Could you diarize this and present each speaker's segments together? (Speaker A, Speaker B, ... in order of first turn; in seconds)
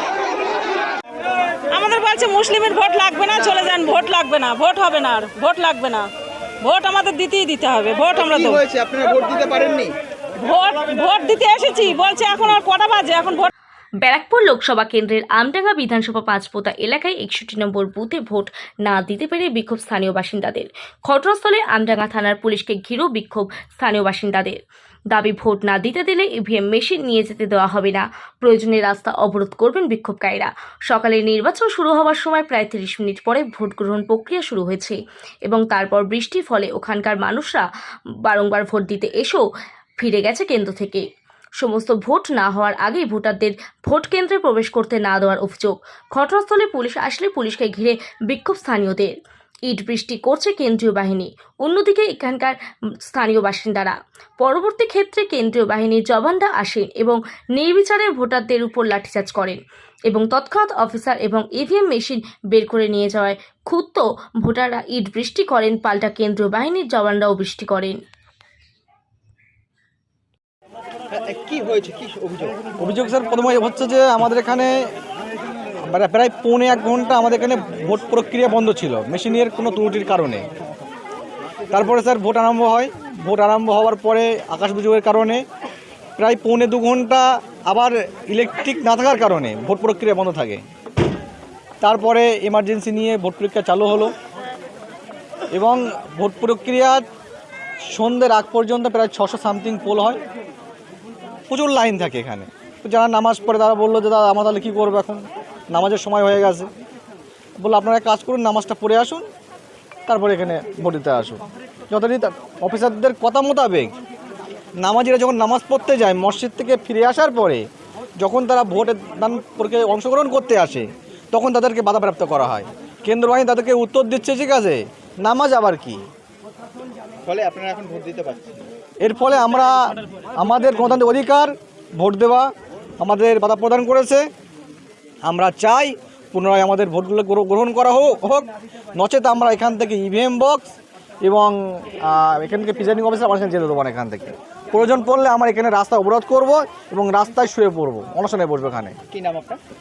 Speaker A: 1.7-6.1, 6.6-8.6, 10.4-13.5
Speaker B: 8.2-10.0, 71.1-72.6, 127.2-128.6, 149.1-149.6
Speaker C: 14.0-24.6, 25.1-37.7, 38.2-39.5, 40.0-41.1, 41.6-49.1, 49.7-52.6, 53.1-68.0
Speaker D: 72.8-74.9, 75.8-80.5, 81.7-85.5, 86.2-90.6, 91.8-94.1, 95.5-97.1, 97.9-100.2, 101.5-106.7, 107.6-109.2, 110.1-113.9, 114.8-117.7, 118.2-126.0, 129.0-134.3, 135.2-149.0